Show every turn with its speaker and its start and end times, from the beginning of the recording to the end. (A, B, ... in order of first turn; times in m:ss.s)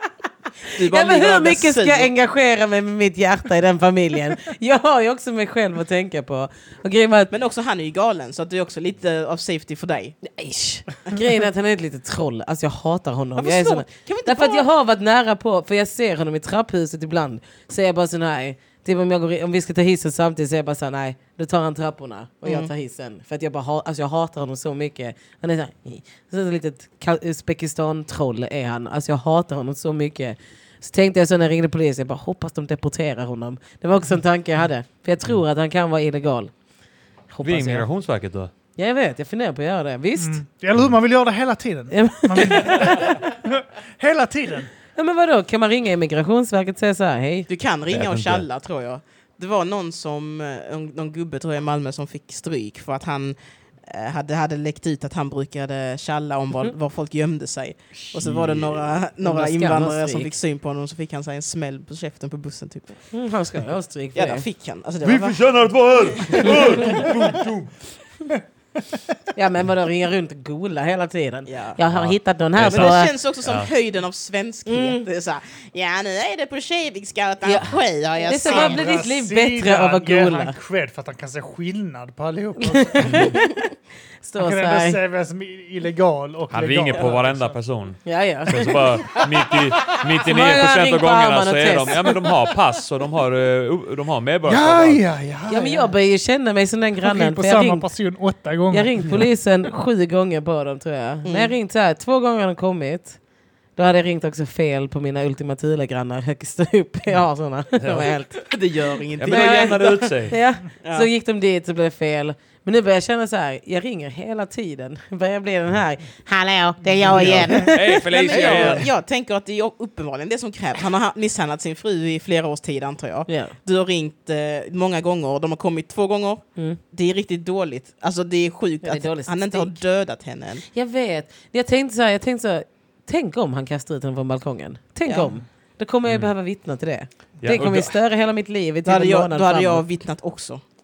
0:00.7-0:02.1 A
0:00.8-0:07.3 B
0:07.3-0:10.2 A
0:10.2-0:36.5 B
0:13.4-0:14.7 A
0:22.4-0:22.7 A
0:37.3-0:37.9 B
0:37.4-0:38.5 C
0:38.8-0:40.4 B
0:40.2-0:44.7 D
0:41.9-0:43.2 B
0:45.0-0:47.5 B
0:47.5-1:03.1 A
0:47.9-0:48.5 C
0:58.0-0:59.0 C
0:59.2-1:00.3 B
1:03.1-1:04.4 B
1:04.2-1:05.4 A
1:05.0-1:07.7 C
1:06.1-1:07.1 A
1:09.3-1:13.1 B
1:11.5-1:11.8 A
1:11.9-1:13.7 C
1:12.6-1:18.8 A
1:14.7-1:15.0 B
1:17.4-1:20.6 B
1:18.3-1:23.4 D
1:22.6-1:23.5 B
1:23.0-1:23.4 C
1:24.2-1:25.0 B
1:24.4-1:27.6 D
1:26.5-1:35.0 C
1:28.0-1:29.2 B
1:30.0-1:32.2 B
1:34.5-1:35.9 D
1:35.5-1:37.9 B
1:37.0-1:39.2 D
1:38.7-1:43.2 B
1:41.2-1:41.5 A
1:43.8-1:48.3 B
1:47.8-1:48.1 C
1:47.9-1:50.1 A
1:49.2-1:50.4 C
1:49.3-1:58.6 B
1:50.8-1:51.1 A
1:57.0-1:57.7 D
1:57.1-1:58.9 C
1:58.1-2:10.6 A
2:03.3-2:03.6 B
2:08.8-2:09.8 B
2:10.7-2:19.8 B
2:15.1-2:15.4 A
2:17.4-2:17.9 C
2:18.8-2:20.6 A